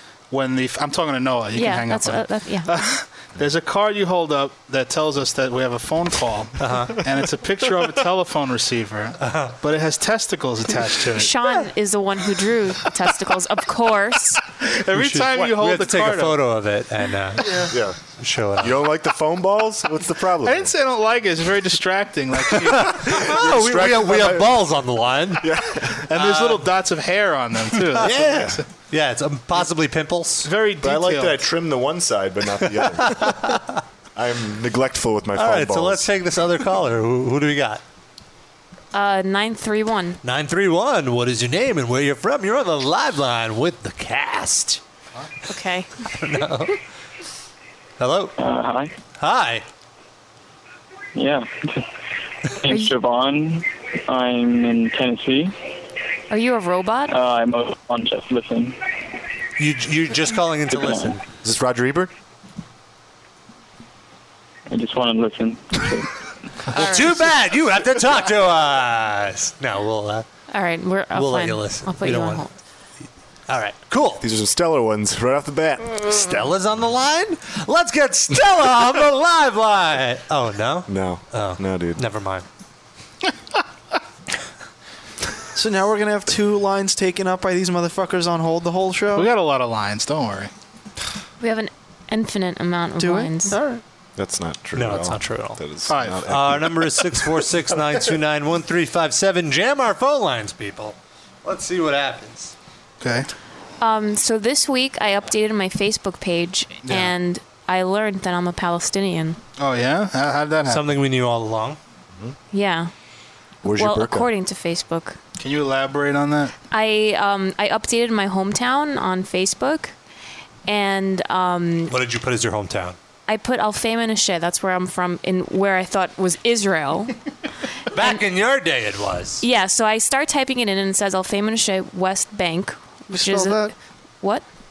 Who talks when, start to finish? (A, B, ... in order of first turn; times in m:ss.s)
0:00.3-0:11.3 A
0:01.5-0:02.8 B
0:06.6-0:07.0 C
0:09.2-0:09.5 C
0:11.2-0:14.4 B
0:14.6-0:16.4 A
0:14.9-0:18.8 C
0:17.4-0:17.7 D
0:17.7-0:18.0 E
0:18.6-0:20.7 E
0:20.4-0:23.0 A
0:22.8-0:25.6 C
0:23.0-0:24.6 E
0:25.4-0:26.0 E
0:26.1-0:28.6 A
0:26.1-0:26.6 C
0:27.9-0:30.5 C
0:30.4-0:31.4 A
0:30.8-0:33.6 E
0:33.0-0:33.6 C
0:34.1-0:36.1 E
0:35.4-0:37.8 C
0:38.9-0:40.2 B
0:40.2-0:44.8 C
0:45.5-0:45.9 B
0:46.2-0:46.8 C
0:48.0-0:48.3 C
0:48.4-0:48.9 F
0:49.2-0:49.6 C
0:51.1-0:51.8 F
0:52.5-0:55.5 F
0:56.3-0:57.1 B
0:57.1-0:58.8 F
0:59.6-1:01.2 C
1:00.7-1:01.2 F
1:01.4-1:02.1 E
1:04.7-1:06.1 F
1:06.7-1:07.1 B
1:06.7-1:10.2 C
1:10.5-1:12.5 B
1:11.1-1:12.5 C
1:13.5-1:14.2 C
1:14.2-1:16.0 E
1:16.0-1:22.4 C
1:20.9-1:22.0 E
1:25.5-1:29.3 D
1:29.1-1:30.5 A
1:31.4-1:33.6 B
1:33.0-1:33.8 D
1:34.2-1:37.0 E
1:34.7-1:35.6 C
1:35.9-1:36.2 A
1:36.3-1:42.5 C
1:43.0-1:43.3 A
1:43.8-1:49.4 B
1:46.8-1:47.1 A
1:49.6-1:50.8 A
1:50.7-1:51.8 C
1:52.5-1:52.9 B
1:53.6-1:54.3 E
1:53.8-1:55.2 B
1:55.4-1:56.5 A
1:56.7-1:59.9 B
2:00.7-2:01.9 B
2:01.9-2:03.0 C
2:03.3-2:07.1 B
2:07.9-2:09.4 C
2:07.9-2:08.2 B
2:09.4-2:13.7 B
2:13.1-2:13.7 D